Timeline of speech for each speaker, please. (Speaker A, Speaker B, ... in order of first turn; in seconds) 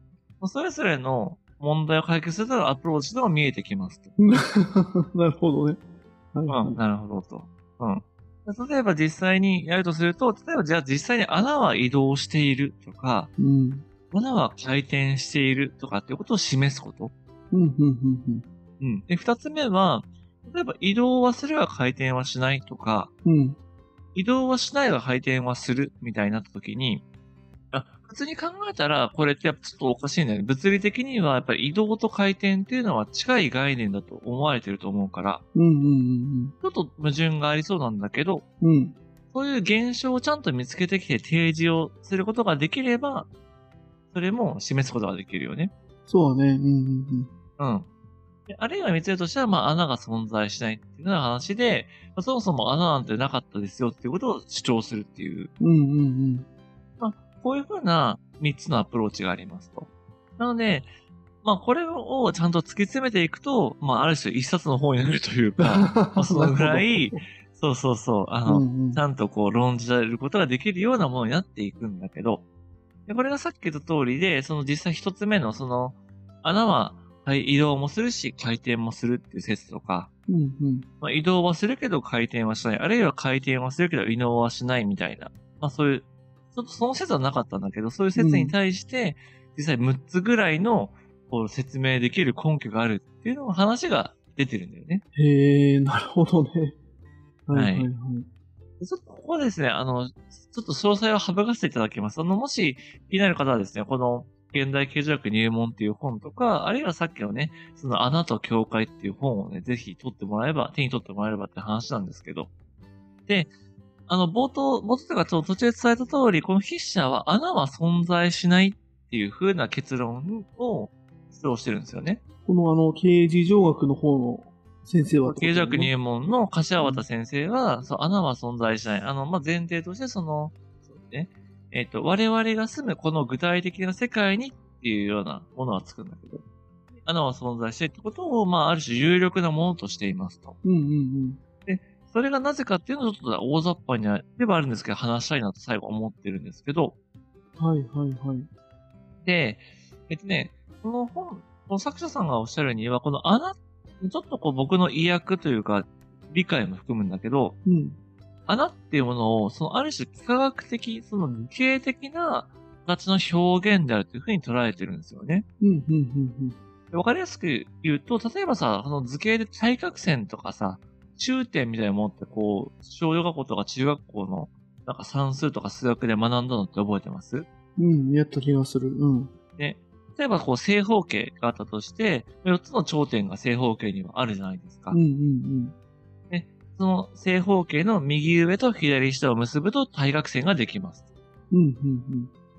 Speaker A: 0.4-4.1, 6.5-13.3, 14.1-17.1, 18.8-23.1, 24.1-27.0, 27.7-35.4, 36.6-38.4, 39.3-43.3, 44.1-45.7, 47.6-47.9, 48.5-55.5, 57.0-60.9, 61.4-72.4, 73.1-80.1, 81.0-95.0, 97.5-97.9, 98.8-112.5, 114.1-122.2, 125.2-136.4, 137.0-140.6, 141.6-146.9, 149.2-157.6, 158.5-165.4, 166.9-177.5, 179.6-185.0, 186.3-191.0
Speaker B: 4.2-5.8, 6.3-6.8, 13.4-13.8, 17.5-18.4, 23.2-23.6, 35.5-36.5, 38.6-39.0, 46.1-47.3, 55.6-56.5, 65.6-67.2, 68.5-69.0, 80.3-80.9, 88.2-88.5, 95.1-96.8, 97.5-98.3, 122.5-125.9, 126.8-127.0, 140.6-141.4, 147.6-148.5, 157.6-158.0, 165.6-166.6, 177.8-179.3, 184.9-185.7, 191.5-192.3